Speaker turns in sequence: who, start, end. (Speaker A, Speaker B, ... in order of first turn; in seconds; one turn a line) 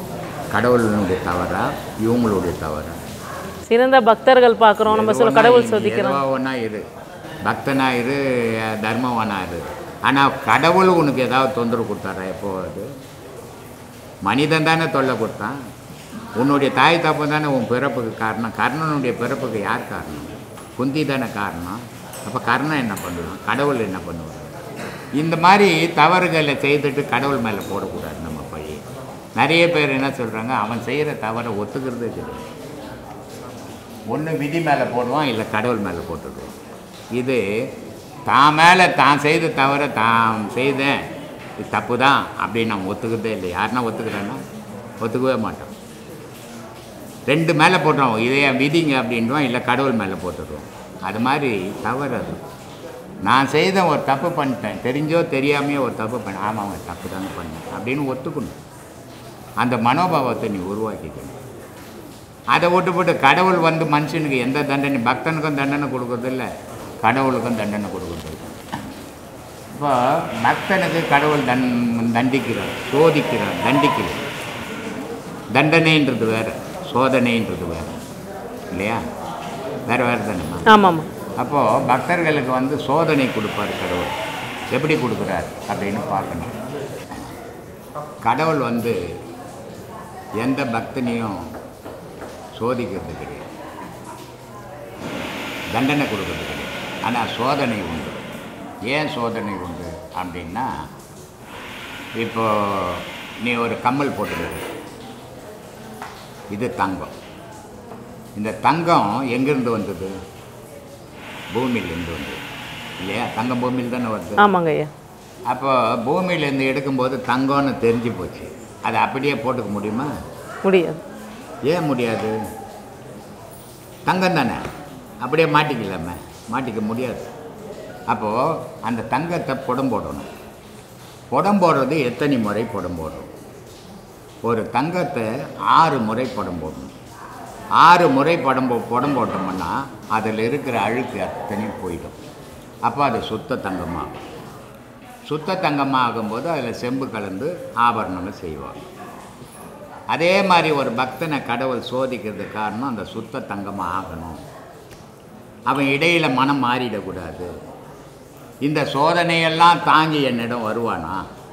Speaker A: 0.5-3.0
Speaker B: 3.7-6.2
Speaker A: 4.8-6.8
Speaker A: 7.4-12.9
Speaker A: 14.2-15.6
Speaker A: 16.4-24.5
Speaker A: 25.2-28.8
Speaker A: 29.4-32.5
Speaker A: 34.1-36.5
Speaker A: 37.1-37.7
Speaker A: 38.3-41.1
Speaker A: 41.6-44.4
Speaker A: 45.0-45.7
Speaker A: 47.3-52.4
Speaker A: 53.2-58.6
Speaker A: 59.6-61.4
Speaker A: 62.5-66.5
Speaker A: 67.0-68.6
Speaker A: 69.7-74.2
Speaker A: 75.5-78.0
Speaker A: 78.7-79.0
Speaker A: 79.9-80.7
Speaker B: 80.7-81.0
Speaker A: 81.4-84.2
Speaker A: 84.7-86.6
Speaker A: 88.2-89.0
Speaker A: 90.4-91.5
Speaker A: 92.5-93.5
Speaker A: 95.7-98.2
Speaker A: 98.8-100.7
Speaker A: 102.2-104.7
Speaker A: 106.5-107.1
Speaker A: 108.3-110.1
Speaker A: 111.5-112.4
Speaker A: 113.0-114.4
Speaker B: 114.4-114.9
Speaker A: 115.5-120.1
Speaker B: 120.6-121.0
Speaker A: 121.7-122.3
Speaker A: 124.0-124.6
Speaker A: 125.2-127.3
Speaker A: 128.1-130.3
Speaker A: 131.3-133.3
Speaker A: 134.4-136.9
Speaker A: 137.8-142.2
Speaker A: 142.8-144.2
Speaker A: 145.3-148.9
Speaker A: 150.1-154.4
Speaker A: 155.7-157.5
Speaker A: 158.6-161.3